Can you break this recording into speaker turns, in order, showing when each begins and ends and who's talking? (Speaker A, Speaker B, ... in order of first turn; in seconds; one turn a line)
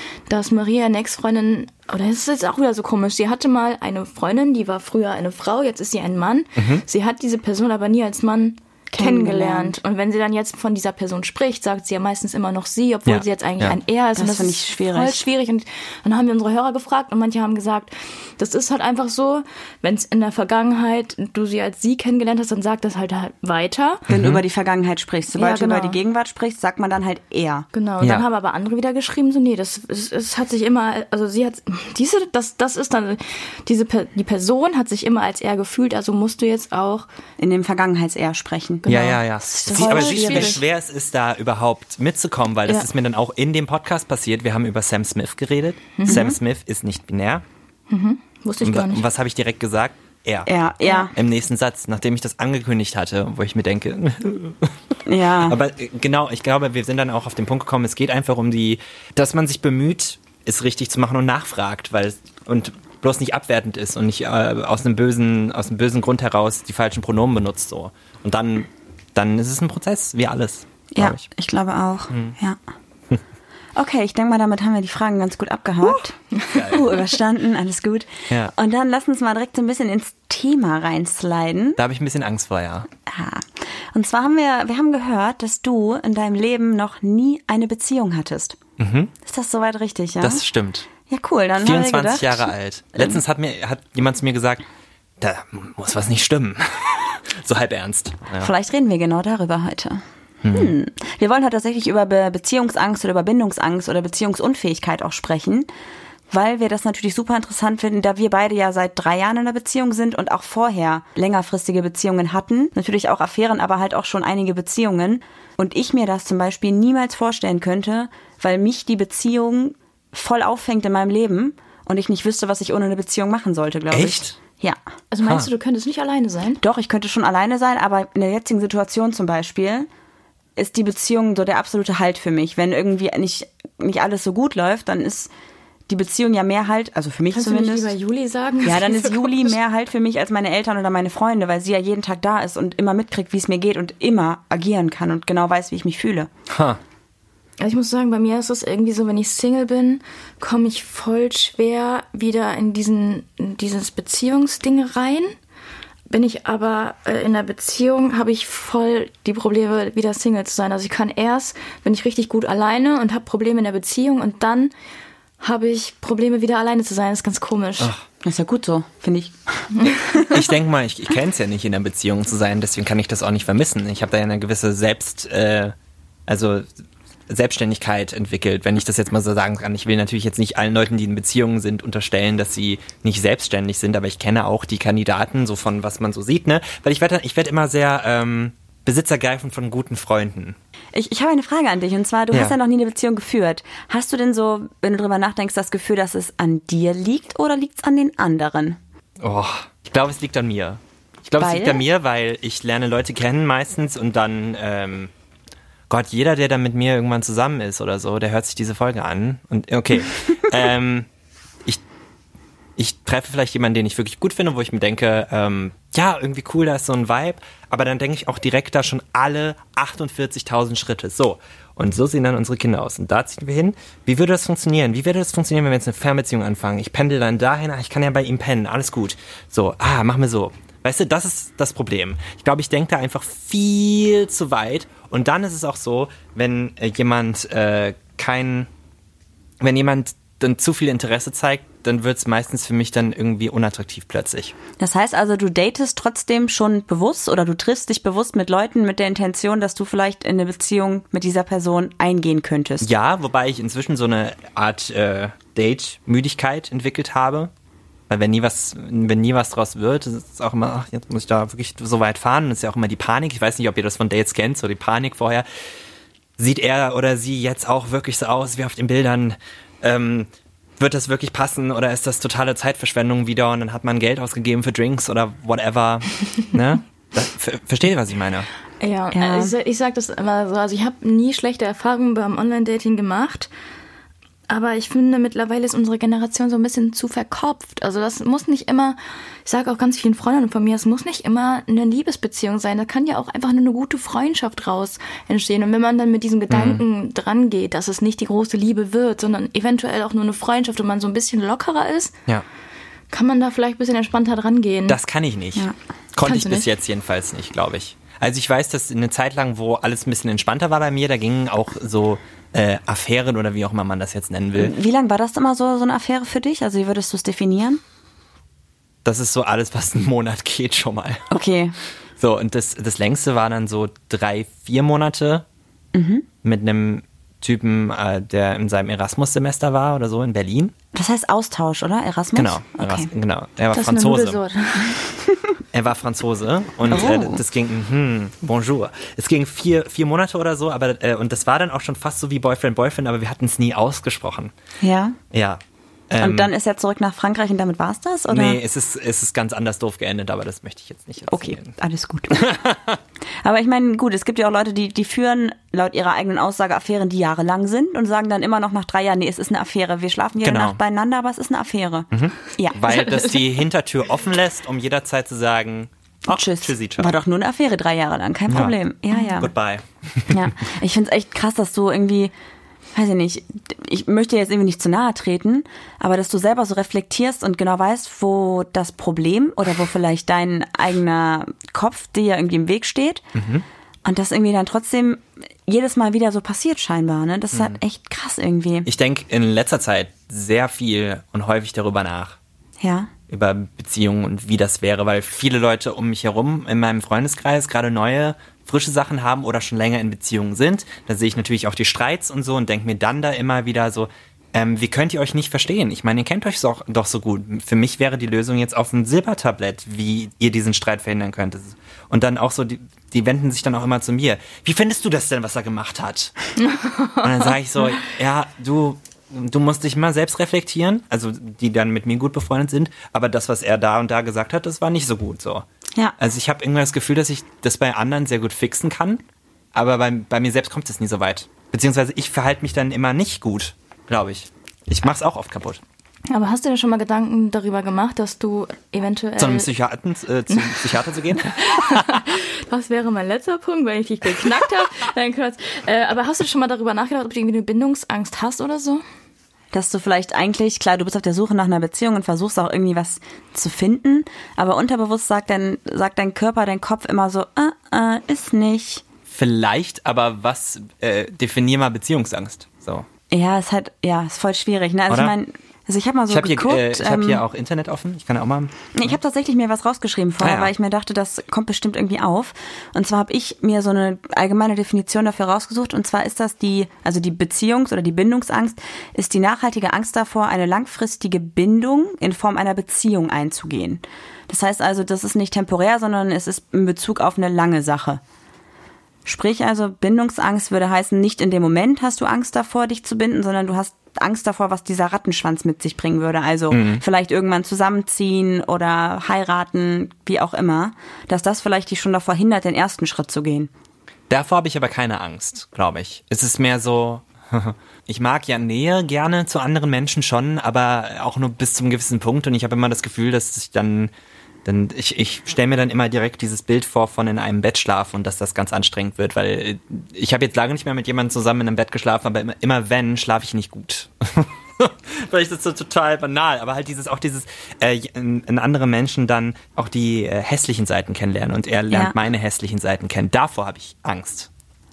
Speaker A: 0.3-24.1
Speaker B: 6.6-6.8
Speaker C: 8.9-9.8
Speaker B: 13.1-13.8
Speaker C: 14.2-15.2
Speaker B: 24.1-24.4
Speaker C: 24.1-27.7
Speaker A: 25.4-26.0
Speaker A: 27.7-37.1
Speaker C: 37.4-38.9
Speaker A: 38.8-40.6
Speaker B: 38.9-47.5
Speaker C: 39.5-40.6
Speaker A: 46.0-46.2
Speaker C: 46.1-46.4
Speaker A: 47.9-49.0
Speaker B: 48.6-50.5
Speaker C: 50.5-51.1
Speaker A: 50.8-51.1
Speaker B: 51.1-54.8
Speaker C: 55.1-55.6
Speaker B: 55.4-71.2
Speaker C: 70.9-72.6
Speaker B: 72.1-72.4
Speaker C: 73.8-81.8
Speaker B: 76.5-76.8
Speaker B: 81.8-82.9
Speaker C: 83.1-88.6
Speaker B: 88.8-89.1
Speaker C: 89.2-90.4
Speaker B: 90.2-90.9
Speaker C: 91.1-92.5
Speaker B: 91.6-94.7
Speaker B: 95.2-98.5
Speaker C: 98.4-105.7
Speaker B: 100.4-100.7
Speaker C: 106.3-124.8
Speaker B: 123.9-124.4
Speaker A: 125.1-126.6
Speaker C: 126.6-129.9
Speaker C: 130.6-135.3
Speaker C: 135.9-137.9
Speaker A: 137.3-139.6
Speaker C: 138.6-146.3
Speaker B: 146.5-146.8
Speaker A: 147.6-155.3
Speaker A: 156.1-164.7
Speaker A: 165.4-167.9
Speaker C: 168.2-169.7
Speaker A: 169.8-170.2
Speaker B: 170.3-175.8
Speaker B: 176.3-176.7
Speaker B: 177.3-190.6
Speaker C: 190.9-198.8
Speaker B: 199.2-205.1
Speaker C: 201.4-201.8
Speaker B: 205.9-211.1
Speaker B: 212.8-238.7
Speaker B: 239.6-244.6
Speaker C: 244.8-252.9
Speaker B: 252.8-257.5
Speaker B: 258.1-265.5
Speaker B: 266.4-278.5
Speaker A: 278.8-283.5
Speaker C: 279.1-279.5
Speaker A: 284.5-302.2
Speaker B: 296.5-296.8
Speaker A: 303.1-305.0
Speaker B: 304.9-314.7
Speaker A: 306.2-306.7
Speaker C: 314.6-317.8
Speaker B: 319.1-321.4
Speaker C: 321.3-321.8
Speaker B: 322.2-325.4
Speaker C: 325.9-326.3
Speaker B: 326.4-330.8
Speaker C: 330.9-333.1
Speaker B: 332.4-334.4
Speaker A: 333.7-335.0
Speaker B: 335.7-344.5
Speaker C: 336.9-337.4
Speaker C: 344.8-345.2
Speaker B: 345.3-346.5
Speaker C: 346.2-348.6
Speaker B: 348.3-351.7
Speaker C: 351.3-352.4
Speaker B: 352.3-353.0
Speaker C: 353.4-362.8
Speaker B: 360.4-360.8
Speaker B: 362.1-367.1
Speaker A: 362.9-363.5
Speaker C: 366.3-369.5
Speaker B: 368.5-368.8
Speaker B: 369.4-370.5
Speaker C: 370.3-372.3
Speaker C: 372.9-383.2
Speaker B: 383.4-383.6
Speaker C: 384.1-388.9
Speaker B: 387.5-387.8
Speaker B: 388.9-392.4
Speaker C: 392.8-393.1
Speaker B: 393.3-416.3
Speaker A: 416.6-417.3
Speaker B: 417.2-425.7
Speaker B: 426.2-435.8
Speaker A: 436.3-439.7
Speaker B: 439.4-442.2
Speaker A: 440.5-449.0
Speaker C: 449.7-459.1
Speaker B: 459.3-463.1
Speaker C: 463.3-467.4
Speaker B: 465.1-465.4
Speaker B: 466.3-469.2
Speaker C: 468.9-488.2
Speaker B: 470.4-470.7
Speaker C: 489.2-503.7
Speaker B: 496.7-497.0
Speaker B: 504.3-514.1
Speaker B: 514.6-534.5